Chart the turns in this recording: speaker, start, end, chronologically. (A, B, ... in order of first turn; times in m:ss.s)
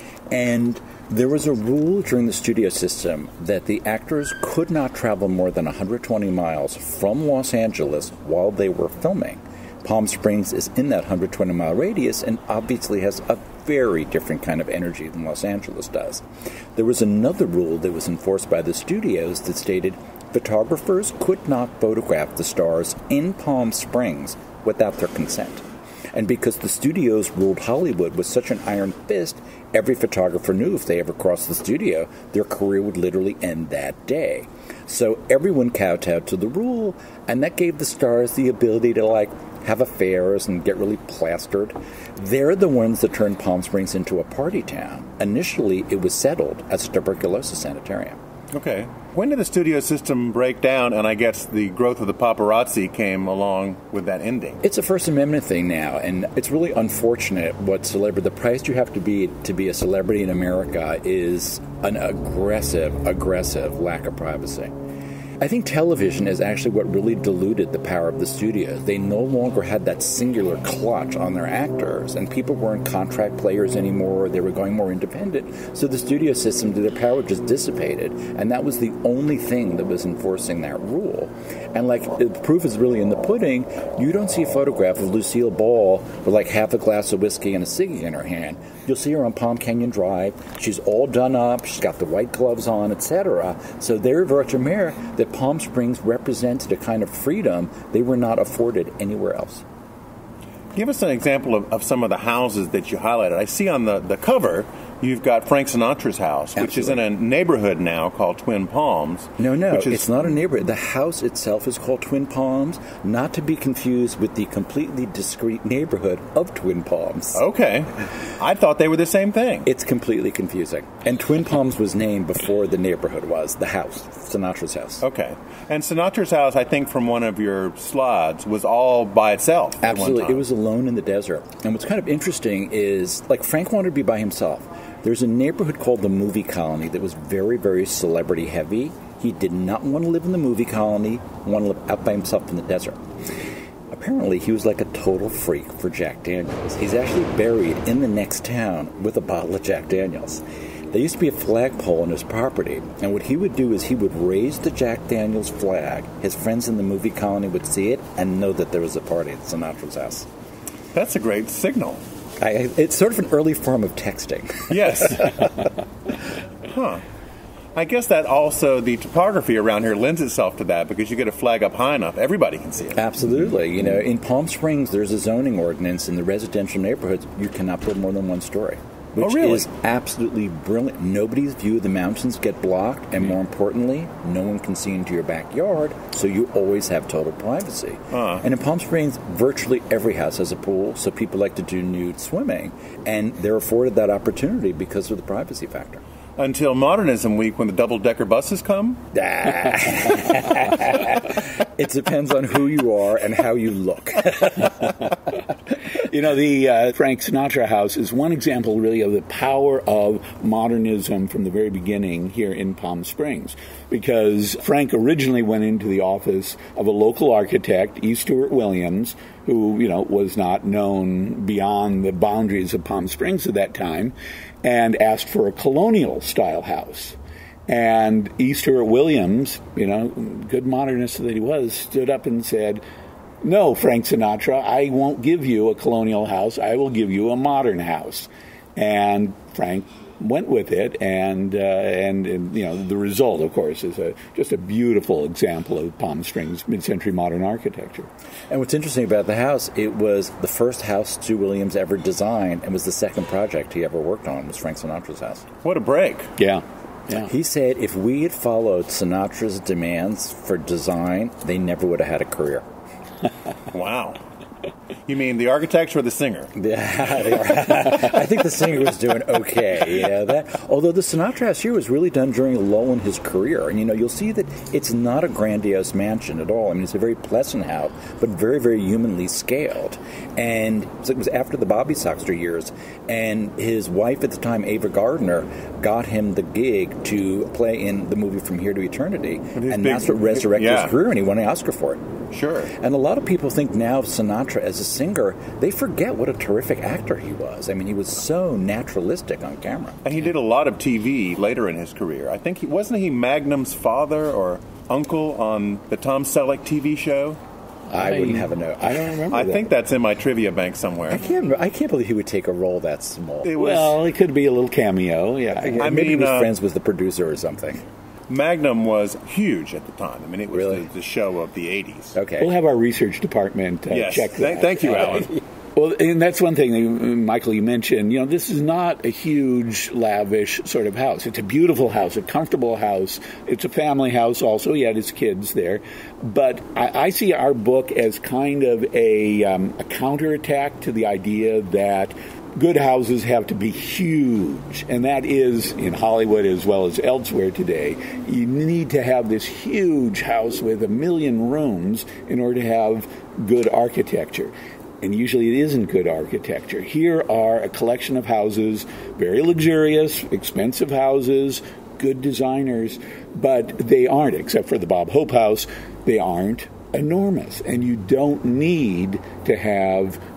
0:00.3-0:48.2 A
0:48.5-0:54.6 B
0:54.6-1:04.8 A
1:05.4-1:39.6 A
1:40.8-1:50.1 B
1:46.6-1:47.0 A
1:49.4-1:57.4 A
1:57.3-1:59.7 B
1:59.6-2:05.0 A
2:05.0-2:10.4 B
2:09.8-2:23.0 A
2:23.9-2:40.3 A
2:40.9-2:42.0 B
2:42.4-2:45.7 A
2:44.7-2:45.5 B
2:46.6-2:47.0 B
2:47.8-2:53.0 B
2:52.9-3:16.0 A
2:59.2-2:59.7 B
3:08.1-3:08.4 B
3:16.4-3:19.0 B
3:19.1-3:25.1 A
3:26.0-3:47.2 C
3:47.7-3:52.8 C
3:53.4-4:08.1 C
4:08.5-4:15.5 A
4:15.6-4:16.4 B
4:16.4-4:17.3 C
4:17.2-4:22.7 A
4:23.7-4:24.2 B
4:25.1-4:26.5 B
4:26.6-4:52.1 A
4:49.6-4:51.0 B
4:52.3-4:52.7 B
4:52.7-5:00.0 A
5:00.0-5:07.4 B
5:07.9-5:09.6 C
5:07.9-5:09.4 A
5:09.3-5:11.2 B
5:11.1-5:13.6 A
5:13.4-5:14.0 B
5:13.6-5:15.9 C
5:15.6-5:17.8 A
5:15.8-5:16.6 B
5:18.3-5:22.2 B
5:20.5-5:20.8 A
5:22.1-5:22.5 A
5:22.4-6:10.2 C
5:23.9-5:25.3 B